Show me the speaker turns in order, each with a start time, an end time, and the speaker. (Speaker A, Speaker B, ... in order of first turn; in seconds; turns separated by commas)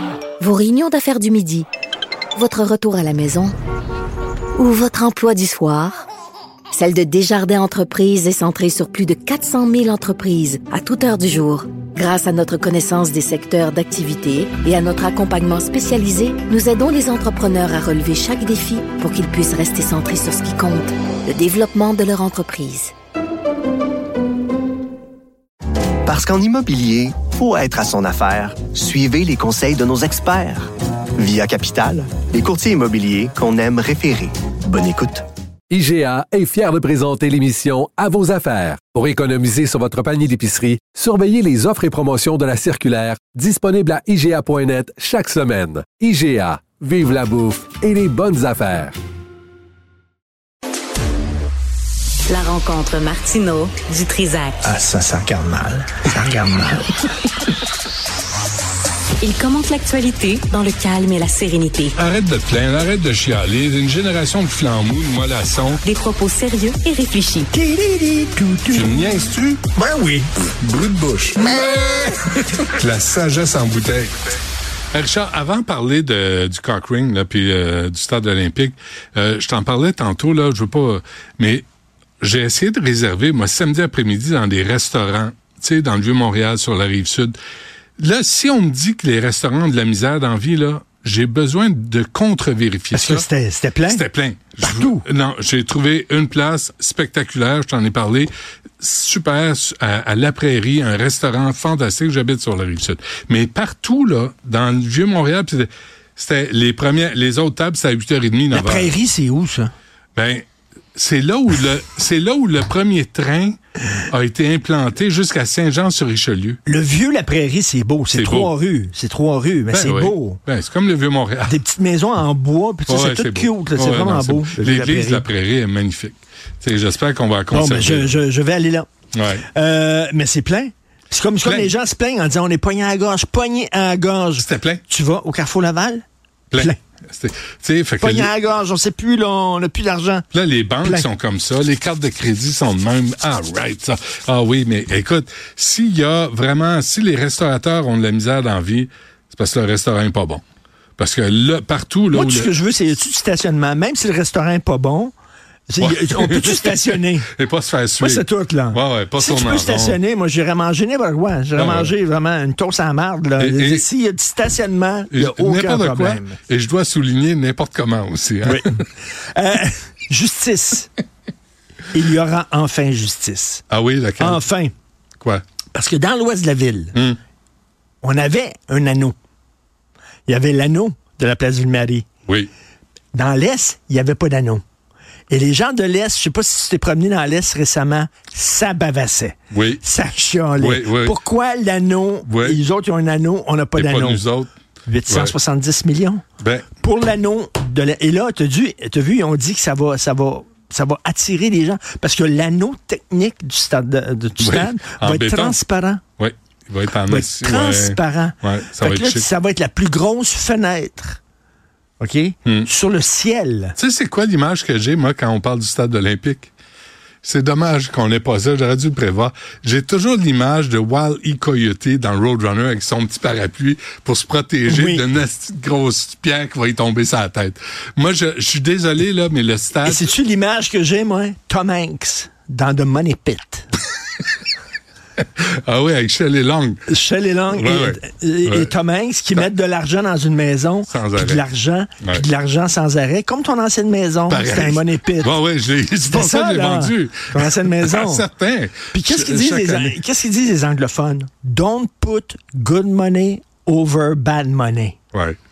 Speaker A: 0.4-1.7, Speaker A: 2.4-3.5, Speaker A: 4.6-6.1, Speaker A: 6.7-22.9, Speaker B: 26.1-35.2, Speaker C: 35.7-49.0, Speaker D: 52.3-54.6, Speaker E: 54.6-56.9, Speaker D: 59.2-62.0, Speaker F: 62.0-65.8, Speaker D: 65.8-67.5, Speaker E: 67.5-68.9, Speaker F: 68.7-69.7, Speaker E: 69.8-70.3, Speaker F: 70.6-74.1, Speaker F: 74.9-81.7, Speaker F: 82.2-87.4, Speaker F: 88.0-93.3, Speaker E: 93.2-93.8, Speaker F: 93.8-109.0, Speaker E: 94.6-95.0, Speaker E: 108.5-109.7, Speaker F: 110.2-110.4, Speaker F: 111.0-113.6, Speaker F: 114.1-116.6, Speaker E: 116.7-120.4, Speaker F: 118.1-118.6, Speaker F: 119.7-121.6, Speaker E: 121.5-124.7, Speaker F: 122.9-128.2, Speaker E: 127.5-128.9, Speaker F: 129.1-129.5, Speaker E: 129.6-136.0, Speaker A: 129.9-130.6, Speaker F: 131.4-131.8, Speaker F: 134.4-134.8, Speaker F: 136.5-138.3, Speaker E: 138.2-140.2, Speaker F: 140.3-150.4, Speaker F: 151.0-152.6, Speaker E: 152.4-155.1, Speaker E: 155.7-157.2, Speaker F: 155.8-160.0, Speaker E: 158.2-166.3, Speaker F: 161.6-161.9, Speaker F: 163.4-163.8, Speaker F: 165.1-168.9, Speaker E: 169.3-170.9, Speaker E: 171.9-173.6, Speaker F: 173.7-174.5, Speaker E: 174.2-174.7, Speaker E: 175.7-176.9, Speaker E: 178.0-179.2, Speaker E: 180.3-182.1, Speaker E: 183.1-184.6, Speaker E: 185.3-194.2, Speaker F: 189.5-189.8, Speaker F: 190.6-191.2, Speaker F: 192.2-192.6, Speaker F: 193.8-194.5, Speaker E: 194.9-196.2, Speaker F: 195.1-195.3, Speaker F: 196.4-196.8, Speaker E: 196.8-206.0, Speaker F: 204.4-205.6, Speaker F: 206.2-209.3, Speaker E: 207.1-208.3, Speaker E: 208.9-211.2, Speaker E: 212.0-213.8, Speaker F: 213.8-216.5, Speaker F: 217.2-230.1, Speaker E: 229.9-233.7, Speaker F: 235.2-236.9, Speaker E: 237.0-237.5, Speaker F: 237.5-238.8, Speaker E: 238.2-245.2, Speaker F: 240.9-241.5, Speaker F: 242.0-242.3, Speaker F: 244.3-250.0, Speaker E: 247.3-248.0, Speaker E: 248.9-254.9